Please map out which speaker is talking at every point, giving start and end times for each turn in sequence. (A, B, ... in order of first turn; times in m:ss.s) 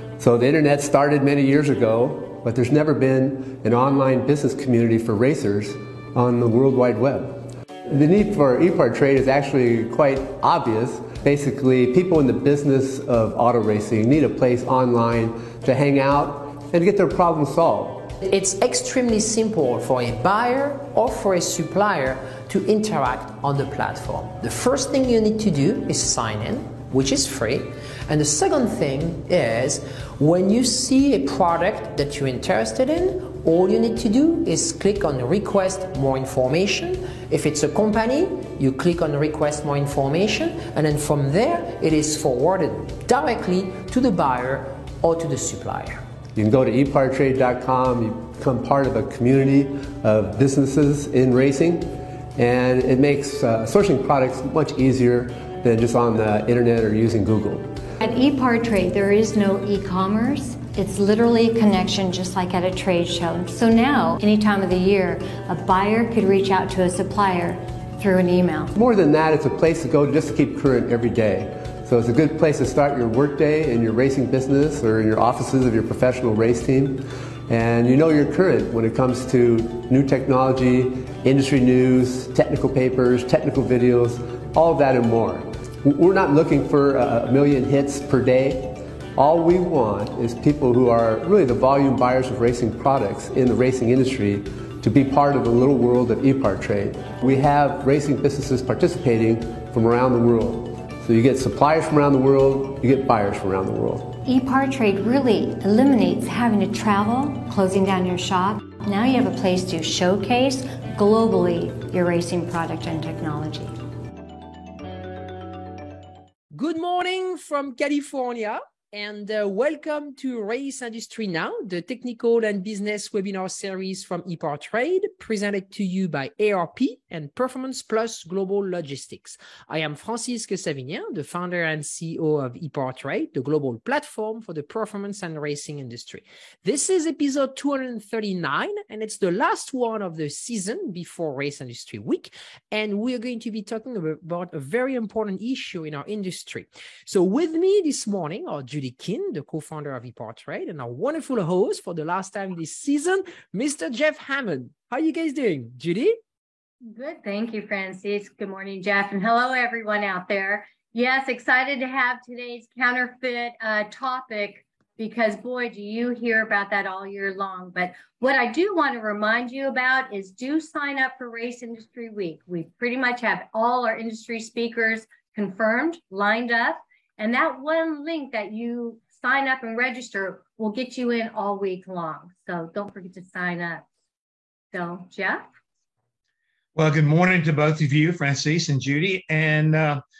0:00.2-0:18.2 A
0:18.2-0:46.0 B
0:46.3-0:57.8 A
0:58.0-1:08.7 C
1:08.7-1:44.2 A
1:44.2-1:53.8 C
1:56.5-2:36.2 B
2:36.9-3:03.8 D
3:04.7-3:05.5 D
3:06.8-3:10.0 E